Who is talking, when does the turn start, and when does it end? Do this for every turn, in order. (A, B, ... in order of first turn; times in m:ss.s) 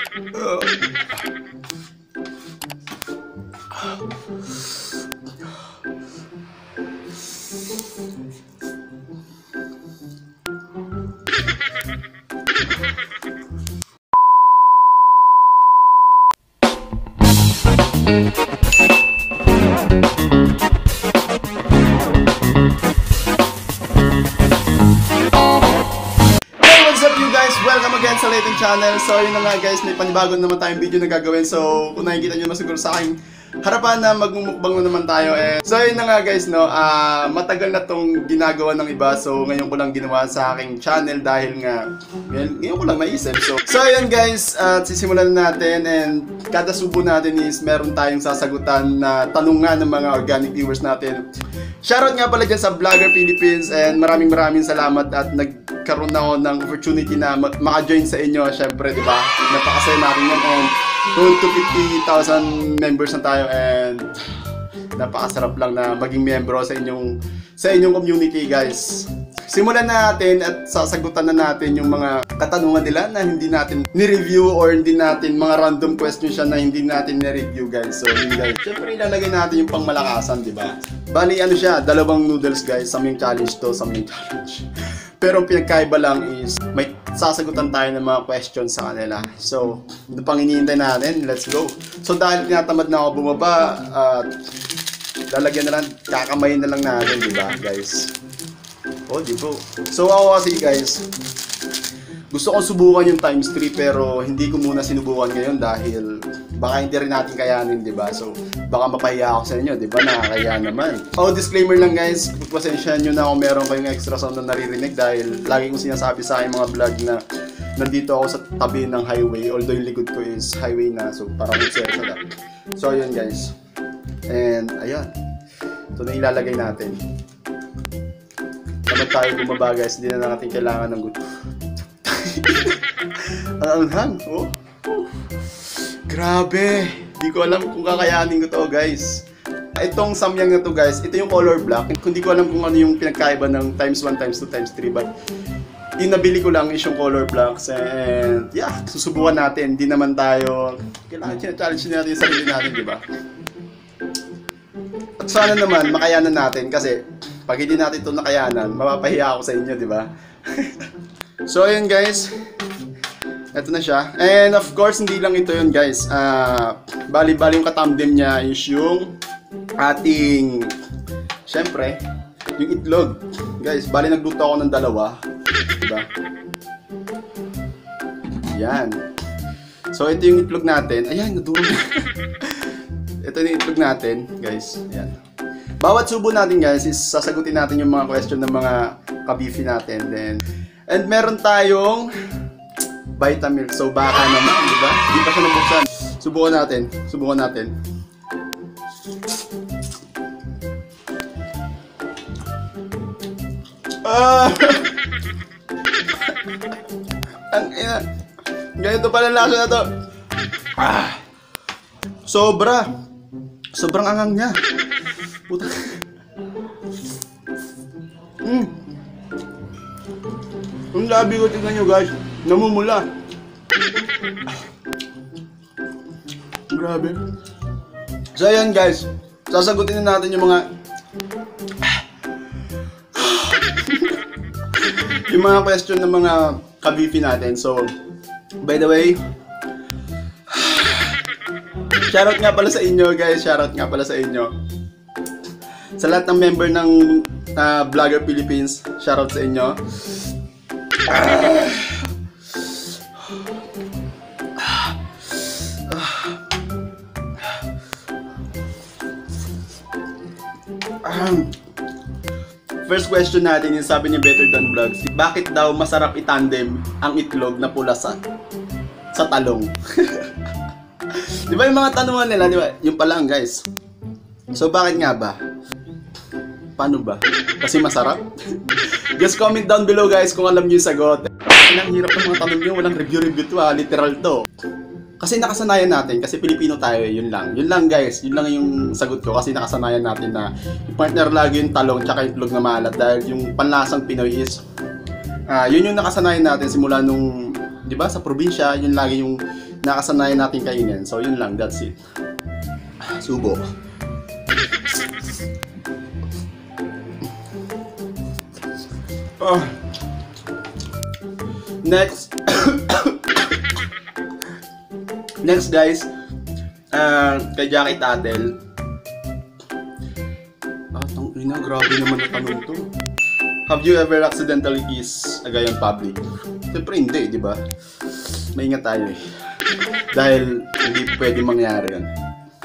0:00.3-0:01.0 A
0:26.6-0:51.2 A
0:51.8-1:04.1 A
1:05.0-1:34.3 A
1:35.3-1:38.1 A
1:39.1-1:41.1 A
1:42.3-1:57.2 A
1:57.8-2:03.5 A
2:04.3-2:05.1 A
2:05.9-2:07.0 A
2:08.9-2:11.3 A
2:11.9-2:19.2 A
2:19.8-2:25.1 A
2:26.0-2:33.0 A
2:35.2-2:40.9 A
2:41.4-2:42.3 A
2:43.5-2:49.1 A
2:49.8-2:50.7 A
2:51.4-2:52.0 A
2:52.6-2:56.1 A
2:58.5-2:59.0 A
2:59.9-3:05.2 A
3:05.8-3:12.1 A
3:13.2-3:17.7 A
3:24.0-3:25.0 A
3:26.1-3:26.8 A
3:27.5-3:28.0 A
3:28.8-3:29.9 A
3:30.7-3:31.2 A
3:32.2-3:32.9 A
3:33.7-3:34.6 A
3:35.5-3:36.0 A
3:38.4-3:38.8 A
3:40.9-3:43.1 A
3:46.7-3:47.2 A
3:48.3-3:50.7 A
3:53.1-3:57.9 A
3:58.6-3:59.2 A
4:00.5-4:01.2 A
4:02.1-4:04.5 A
4:06.0-4:10.3 A
4:11.0-4:13.5 A
4:14.6-4:16.5 A
4:21.0-4:21.6 A
4:22.8-4:28.2 A
4:29.1-4:30.5 A
4:31.1-4:33.6 A
4:34.5-4:35.4 A
4:36.8-4:44.4 A
4:45.2-4:54.6 A
4:55.5-5:02.0 A
5:03.0-5:03.6 A
5:09.4-5:09.8 A
5:11.8-5:13.8 A
5:15.4-5:16.1 A
5:16.9-5:18.6 A
5:20.9-5:22.9 A
5:23.7-5:29.2 A
5:30.1-5:32.1 A